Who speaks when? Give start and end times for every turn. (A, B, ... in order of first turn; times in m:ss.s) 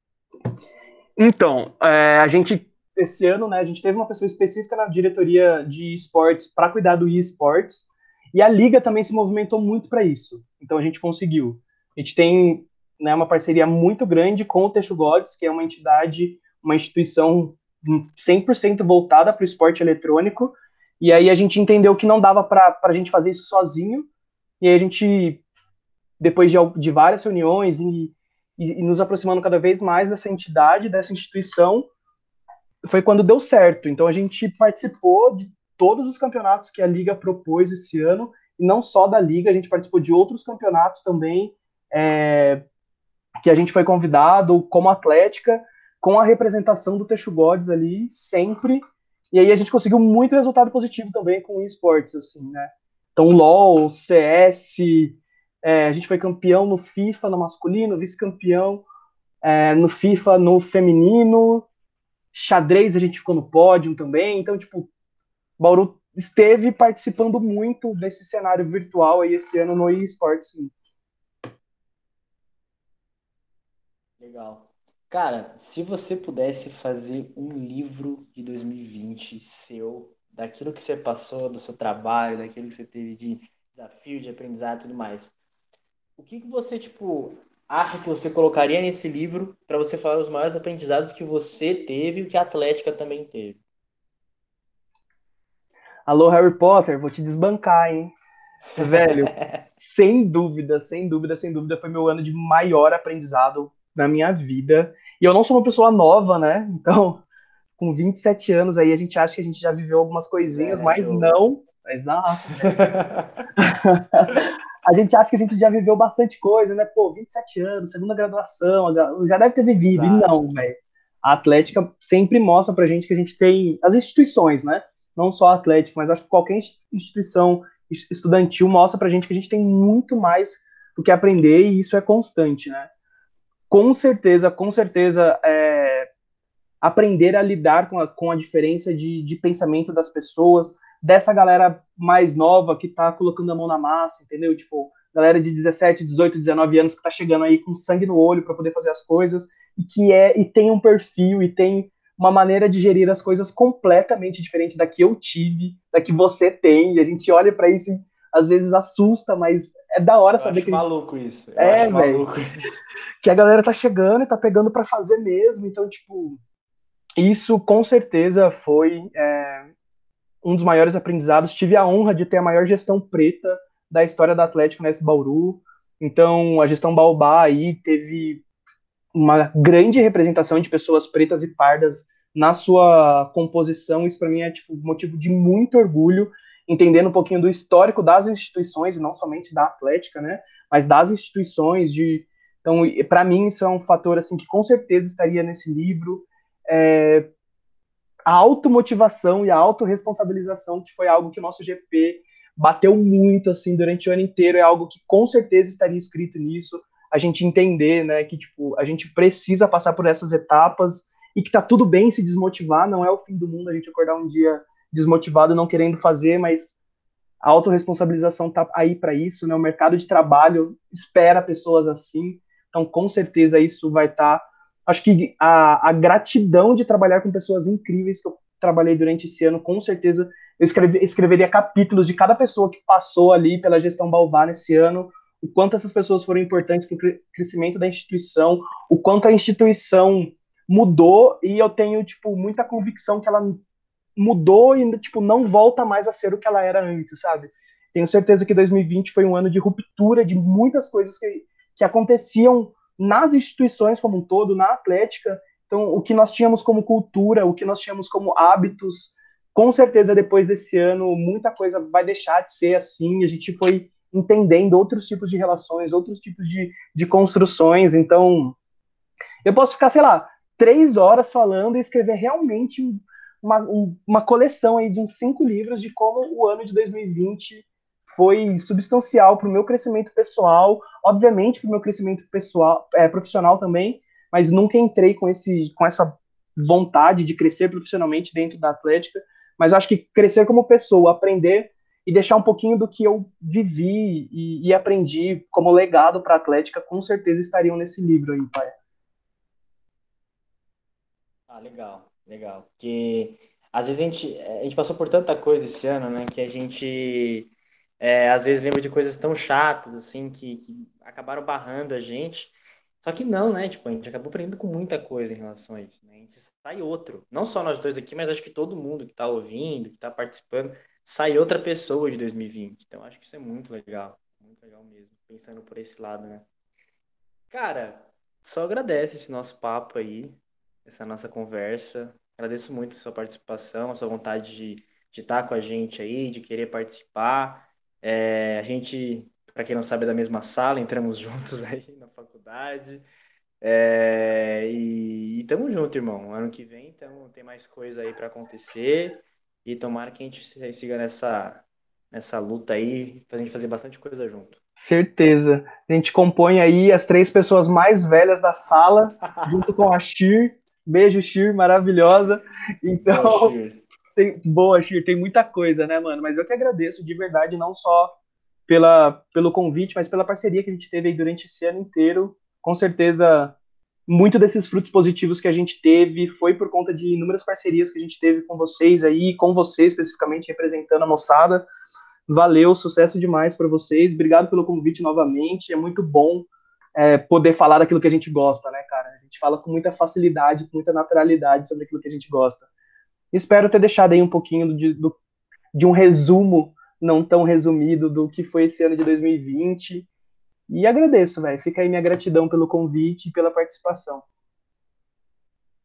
0:01.2-0:24.1 A
0:24.6-0:25.4 A
0:26.2-0:31.9 A
0:32.8-0:42.6 A
0:43.4-0:58.8 A
0:59.4-1:01.7 A
1:02.3-1:04.9 A
1:05.6-1:10.7 A
1:14.2-1:25.4 B
1:26.2-1:33.6 B
1:36.1-1:38.1 A
1:38.8-1:47.2 A
1:38.9-1:39.6 B
1:47.8-1:52.9 A
1:50.4-1:51.4 B
1:52.6-1:53.4 B
1:53.6-2:12.9 A
1:59.8-2:00.4 B
2:13.7-2:16.1 A
2:16.8-2:40.8 A
2:40.3-2:42.8 B
2:41.6-2:42.2 A
2:43.2-2:46.4 A
2:47.2-2:49.7 A
2:50.4-2:58.4 A
2:59.1-3:17.3 A
3:18.3-3:36.8 A
3:37.4-4:03.6 A
4:04.2-4:28.6 A
4:29.4-4:58.7 A
5:01.5-5:26.4 B
5:27.5-5:43.0 B
5:43.6-5:54.6 B
5:54.8-6:03.5 A
6:03.1-6:03.8 B
6:04.2-6:08.2 A
6:08.7-6:13.6 A
6:14.1-6:21.7 A
6:22.3-6:32.7 A
6:33.3-6:35.2 A
6:35.7-6:40.1 A
6:40.7-6:44.2 A